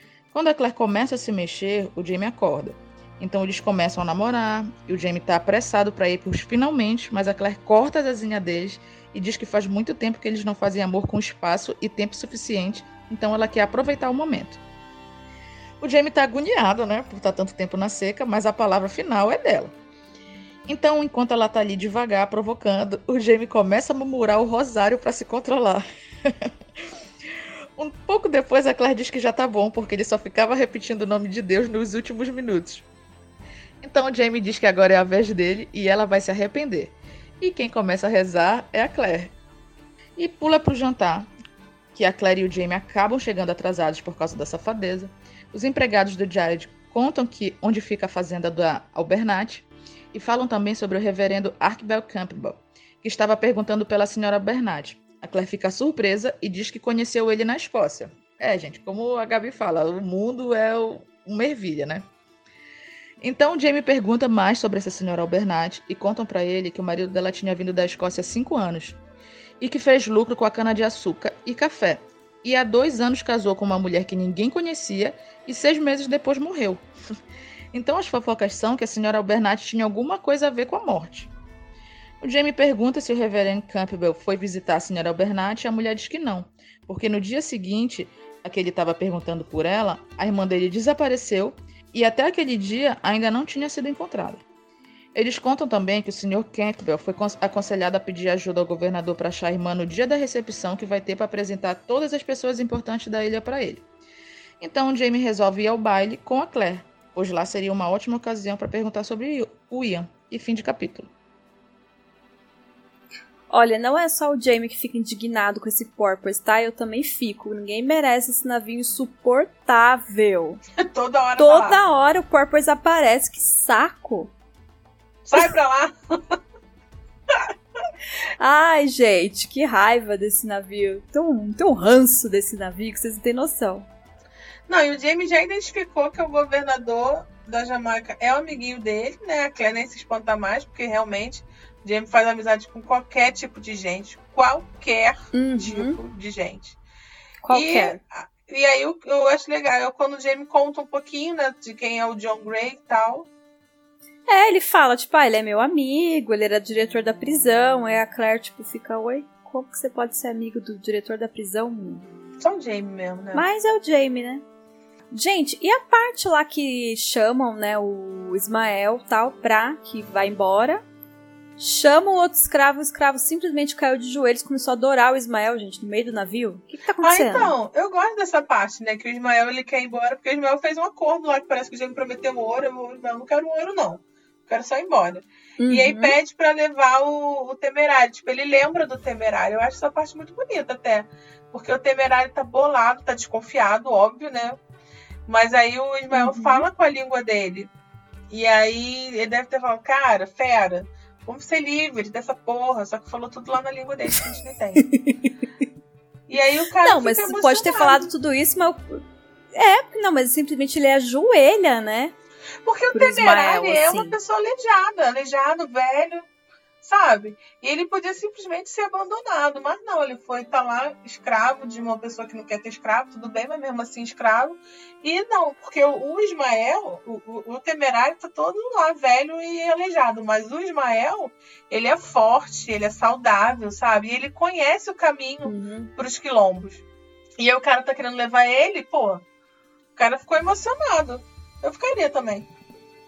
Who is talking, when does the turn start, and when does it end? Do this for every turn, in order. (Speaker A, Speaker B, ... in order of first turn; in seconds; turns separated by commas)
Speaker A: 0.3-14.6, Speaker A: 15.8-19.7, Speaker A: 20.7-26.5, Speaker A: 27.8-32.9, Speaker A: 33.8-39.3, Speaker A: 40.2-41.3, Speaker A: 42.0-62.1, Speaker A: 63.2-69.0, Speaker A: 69.6-76.8, Speaker A: 77.7-81.3, Speaker A: 82.2-94.4, Speaker A: 95.1-103.8, Speaker A: 104.6-111.1, Speaker B: 113.5-120.6, Speaker C: 120.8-121.8, Speaker B: 121.4-124.3, Speaker C: 125.2-126.4, Speaker B: 128.4-133.9, Speaker C: 134.7-146.8, Speaker B: 145.3-146.0, Speaker B: 147.4-148.0, Speaker C: 147.5-153.3, Speaker B: 154.3-162.1, Speaker C: 162.4-163.4, Speaker B: 163.3-164.4, Speaker B: 165.1-170.8, Speaker B: 171.6-177.5, Speaker C: 177.0-194.6, Speaker B: 185.6-186.2, Speaker C: 195.3-197.7, Speaker B: 196.1-196.7, Speaker C: 198.3-204.9, Speaker B: 204.9-205.3, Speaker C: 206.3-208.1, Speaker B: 206.8-209.0, Speaker B: 209.5-212.1, Speaker C: 212.6-216.2, Speaker B: 212.9-214.2, Speaker C: 216.8-236.8, Speaker B: 235.4-235.9, Speaker C: 237.4-239.2, Speaker C: 240.0-242.5